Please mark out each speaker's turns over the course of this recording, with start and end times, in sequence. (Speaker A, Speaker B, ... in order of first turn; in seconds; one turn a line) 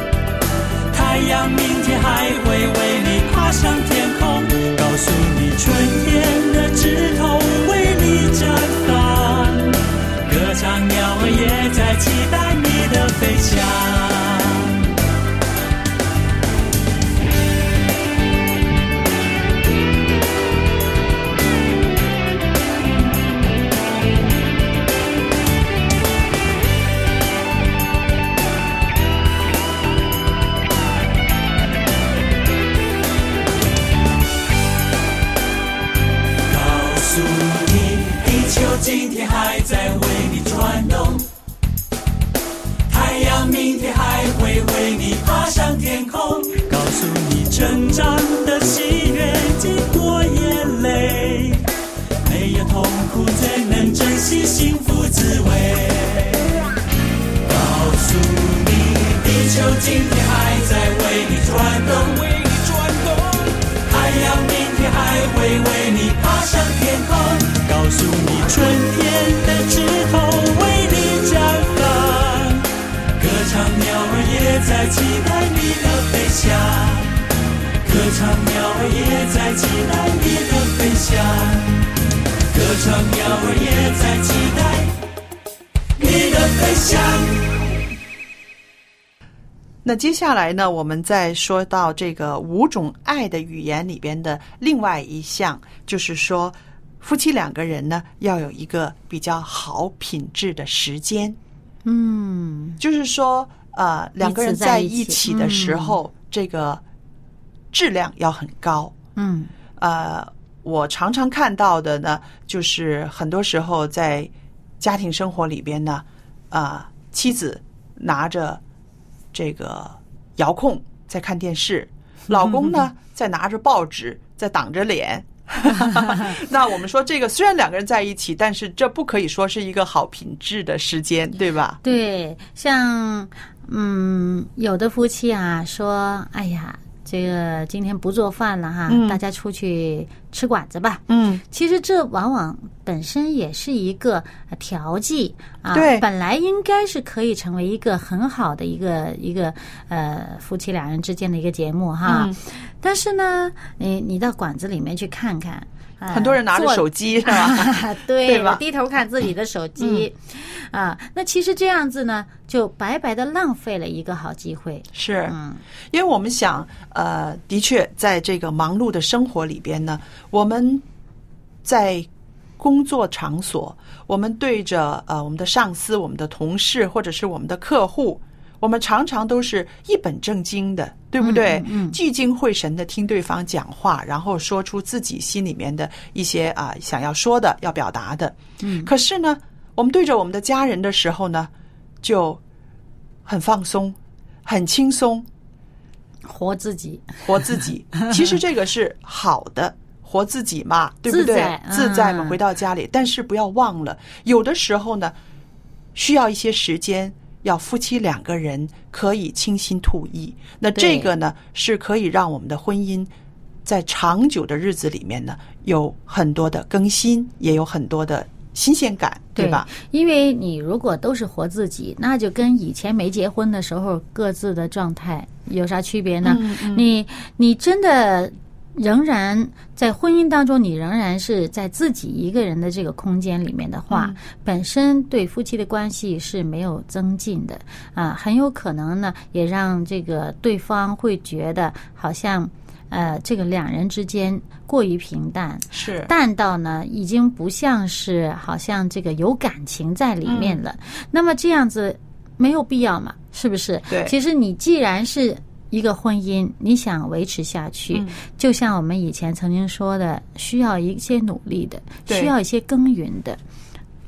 Speaker A: 0.9-14.8
Speaker A: 36.5-41.3
Speaker A: 42.9-51.7
Speaker A: 52.2-56.6
Speaker A: 57.4-77.2
Speaker A: 77.8-81.9
Speaker A: 82.5-84.9
Speaker A: 86.0-87.6
Speaker B: 89.8-101.4
Speaker C: 101.8-102.8
Speaker B: 102.8-106.8
Speaker C: 104.2-106.0
Speaker B: 107.7-108.9
Speaker C: 109.2-109.5
Speaker B: 109.8-118.6
Speaker B: 119.3-131.8
Speaker C: 131.8-165.6
Speaker B: 138.9-139.2
Speaker B: 141.1-141.4
Speaker B: 145.7-146.0
Speaker B: 152.0-152.4
Speaker B: 156.1-158.6
Speaker B: 159.8-160.1
Speaker B: 164.9-165.3
Speaker B: 165.9-170.8
Speaker B: 171.6-172.1
Speaker B: 172.6-191.5
Speaker C: 181.2-182.0
Speaker C: 188.6-188.9
Speaker B: 192.0-192.4
Speaker B: 193.2-195.2
Speaker C: 196.2-197.4
Speaker B: 197.2-205.1
Speaker C: 201.1-202.4
Speaker B: 205.9-213.1
Speaker C: 210.7-211.1
Speaker B: 213.6-219.7
Speaker C: 219.4-263.4
Speaker B: 226.2-226.9
Speaker B: 233.9-234.2
Speaker B: 245.7-246.1
Speaker B: 250.2-250.6
Speaker B: 253.9-254.1
Speaker B: 262.1-262.3